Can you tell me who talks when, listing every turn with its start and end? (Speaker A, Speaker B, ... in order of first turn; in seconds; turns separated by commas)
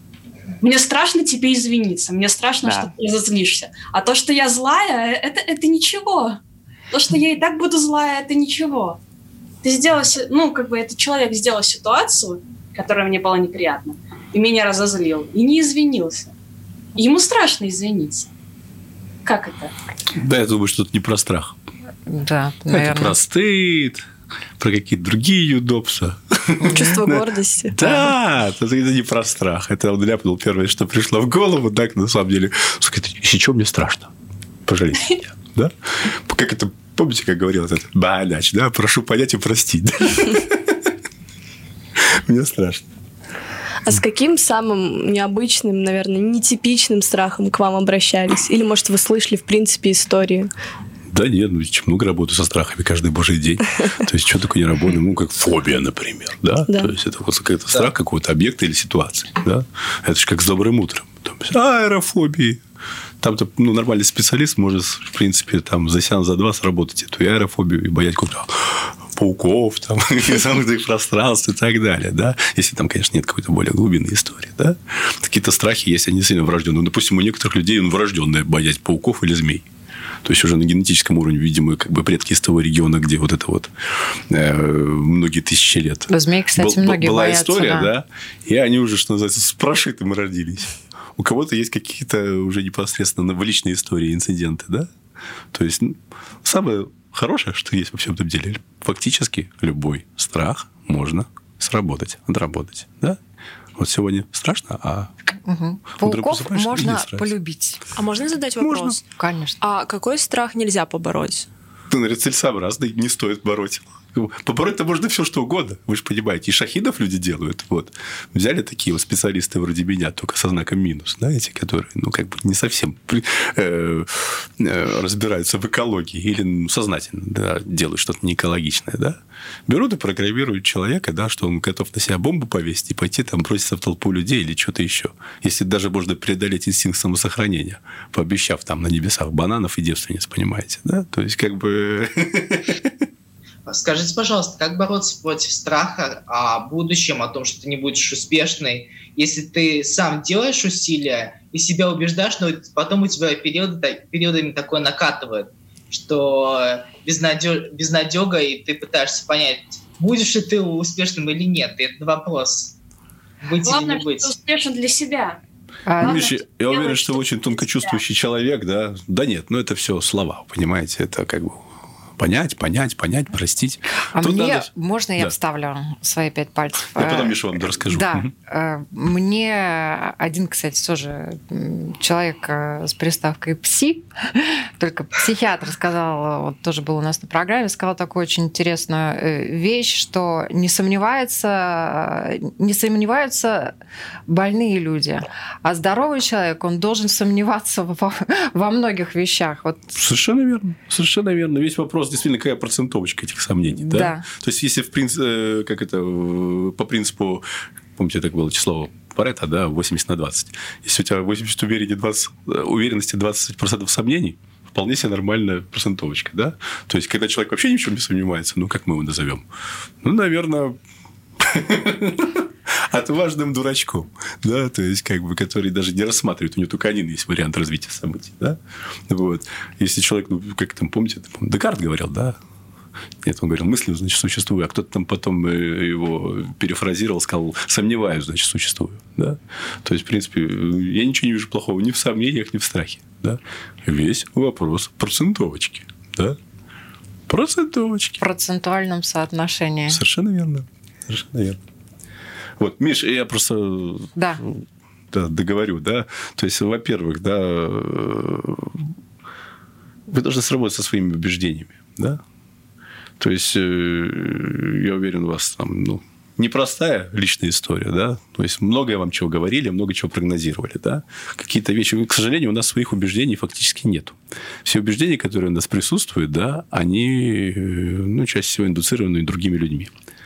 Speaker A: 0.6-6.4, Speaker A: 6.9-9.0, Speaker A: 9.6-16.3, Speaker A: 17.0-18.3, Speaker A: 19.2-19.7, Speaker B: 20.1-21.6, Speaker C: 22.1-23.2, Speaker B: 22.7-24.1, Speaker B: 24.6-34.1, Speaker C: 26.6-27.0, Speaker D: 26.7-27.8, Speaker C: 27.8-28.1, Speaker B: 34.7-40.9, Speaker B: 42.0-42.9, Speaker D: 43.8-50.5, Speaker B: 51.1-62.6, Speaker D: 56.7-56.9, Speaker B: 63.2-79.7, Speaker B: 80.2-94.9, Speaker C: 86.1-87.9, Speaker B: 95.5-103.2, Speaker B: 103.8-105.1, Speaker C: 105.5-107.8, Speaker B: 106.0-107.3, Speaker E: 108.0-109.0, Speaker B: 108.6-109.0, Speaker C: 109.0-109.6, Speaker E: 109.6-111.5, Speaker B: 111.9-142.9, Speaker F: 143.7-162.8, Speaker F: 163.4-164.3, Speaker A: 163.6-165.4, Speaker C: 165.9-166.2, Speaker A: 166.0-167.2, Speaker B: 166.0-171.7, Speaker B: 172.2-175.3, Speaker C: 174.2-193.7, Speaker B: 176.9-178.3, Speaker C: 194.3-199.9, Speaker B: 199.9-219.5, Speaker C: 203.8-204.3, Speaker B: 220.0-220.8, Speaker B: 221.4-232.4, Speaker B: 233.2-246.4, Speaker B: 247.3-248.2, Speaker C: 248.2-250.0, Speaker B: 249.9-251.6, Speaker B: 252.6-258.9, Speaker C: 254.2-254.4, Speaker B: 260.1-262.2, Speaker B: 263.2-279.9